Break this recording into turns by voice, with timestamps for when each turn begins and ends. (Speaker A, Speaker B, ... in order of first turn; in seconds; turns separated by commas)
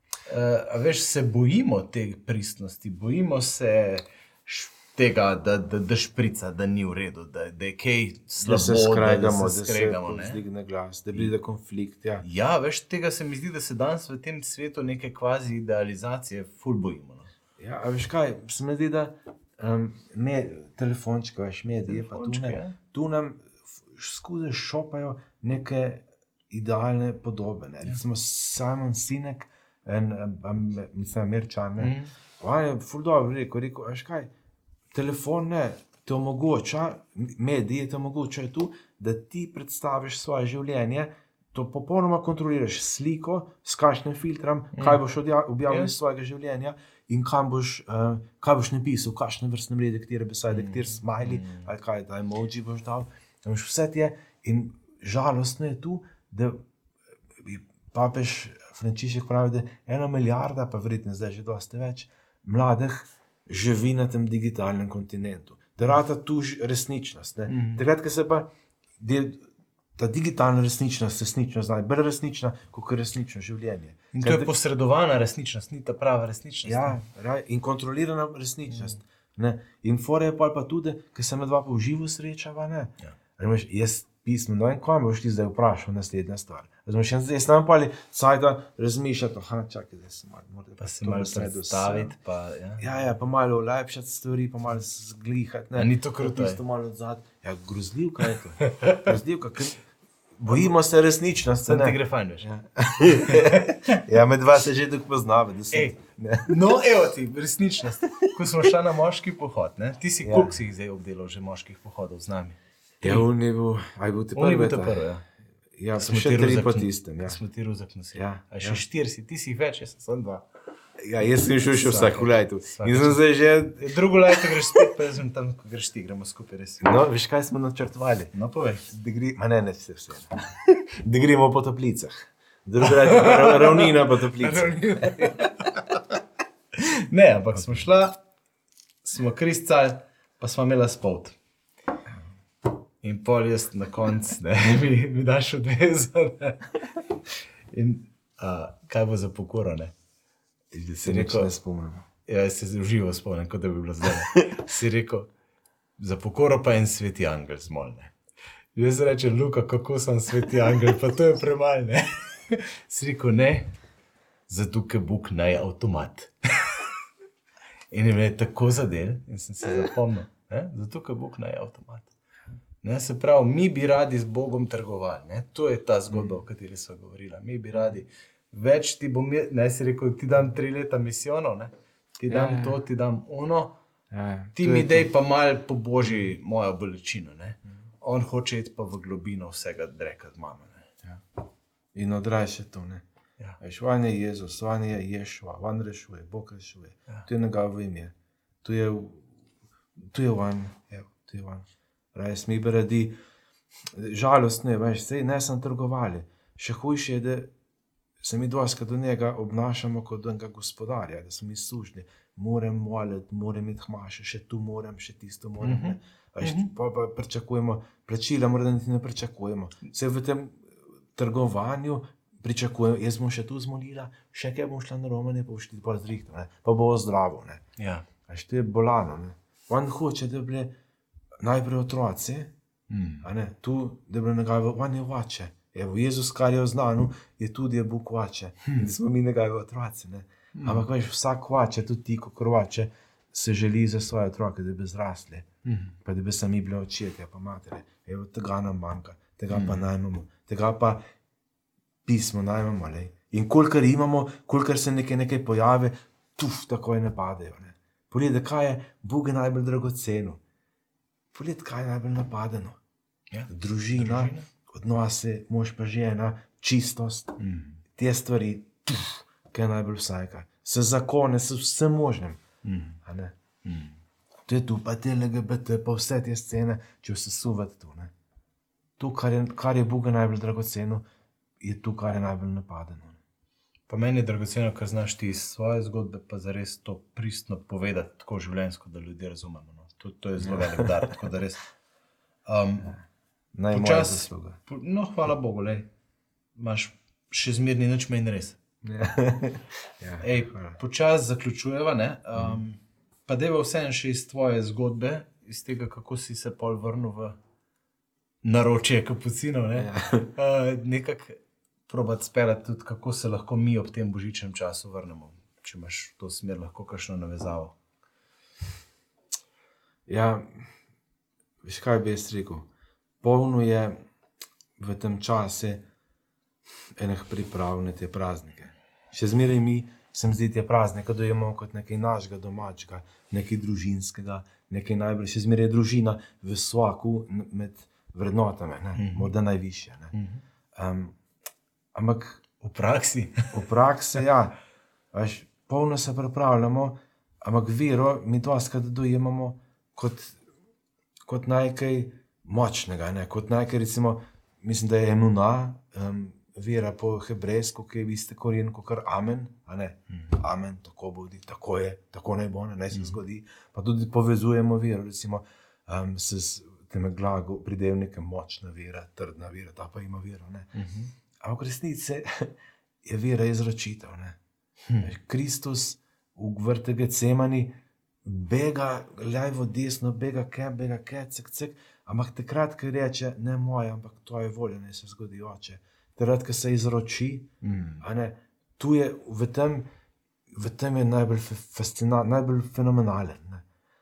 Speaker A: 0.2-10.4, Speaker B: 8.4-12.2, Speaker A: 12.2-17.3, Speaker B: 17.6-34.3, Speaker A: 21.9-22.8, Speaker A: 31.8-32.1, Speaker B: 34.9-56.6, Speaker A: 44.7-45.0, Speaker A: 45.7-45.9, Speaker A: 50.5-51.7, Speaker B: 57.3-69.4, Speaker A: 67.5-67.8, Speaker B: 70.0-74.5, Speaker A: 74.1-77.0, Speaker B: 76.6-92.1, Speaker A: 90.8-92.9, Speaker B: 92.8-99.8, Speaker A: 95.8-96.6, Speaker A: 98.6-99.1, Speaker B: 100.4-106.5, Speaker A: 101.6-102.5, Speaker A: 103.1-103.8, Speaker A: 106.5-113.2, Speaker B: 110.2-110.5, Speaker B: 113.0-115.0, Speaker A: 114.3-115.2, Speaker B: 115.8-117.4, Speaker A: 116.0-120.4, Speaker B: 118.1-118.8, Speaker B: 121.0-124.5, Speaker A: 121.6-123.2, Speaker A: 123.8-126.8, Speaker B: 126.8-128.3, Speaker A: 128.3-128.8, Speaker B: 128.9-135.4, Speaker A: 132.8-136.2, Speaker A: 136.8-138.2, Speaker A: 139.0-141.3, Speaker A: 143.0-146.7, Speaker A: 147.7-149.9, Speaker B: 150.7-152.1, Speaker A: 150.9-151.5, Speaker A: 152.2-155.3, Speaker A: 156.0-158.1, Speaker A: 158.7-163.7, Speaker A: 164.5-166.8, Speaker A: 167.9-172.1, Speaker A: 172.8-183.8, Speaker B: 176.1-176.4, Speaker B: 182.3-182.8, Speaker B: 184.1-185.1, Speaker A: 184.6-190.9, Speaker B: 191.9-193.0, Speaker B: 193.6-199.3, Speaker B: 200.0-203.2, Speaker B: 203.9-207.5, Speaker B: 208.2-227.6, Speaker A: 215.6-216.7, Speaker A: 227.8-228.1, Speaker B: 228.3-230.7, Speaker B: 231.4-232.5, Speaker A: 232.9-233.2, Speaker B: 233.2-245.5, Speaker A: 240.5-240.9, Speaker A: 245.6-245.9, Speaker B: 246.0-251.0, Speaker A: 249.5-249.8, Speaker B: 252.0-260.4, Speaker B: 261.3-262.8, Speaker A: 263.3-264.5, Speaker B: 263.5-267.4, Speaker A: 267.4-267.8, Speaker B: 267.9-272.4, Speaker A: 272.6-273.0, Speaker B: 273.0-273.3, Speaker A: 273.6-273.9, Speaker B: 274.5-278.1, Speaker B: 279.0-281.0, Speaker B: 281.6-283.2, Speaker A: 283.9-291.6, Speaker B: 290.4-291.1, Speaker A: 292.5-293.0, Speaker B: 293.5-294.6, Speaker A: 293.7-295.9, Speaker A: 296.6-298.6, Speaker B: 298.8-300.8, Speaker A: 300.2-307.4, Speaker B: 302.4-302.6, Speaker A: 308.4-317.8, Speaker B: 309.8-310.3, Speaker B: 320.1-320.6, Speaker B: 321.6-322.7, Speaker B: 323.2-324.0, Speaker B: 324.8-325.8, Speaker B: 327.0-340.1, Speaker A: 338.9-339.3, Speaker A: 340.1-340.4, Speaker B: 340.7-341.1, Speaker B: 341.9-342.4, Speaker A: 342.6-343.5, Speaker B: 343.5-344.6, Speaker B: 345.1-350.4, Speaker B: 351.2-370.7, Speaker A: 362.9-363.2, Speaker A: 370.7-371.1, Speaker B: 371.4-374.4, Speaker B: 375.0-387.5, Speaker A: 387.6-388.0, Speaker B: 388.0-389.9, Speaker B: 390.5-393.6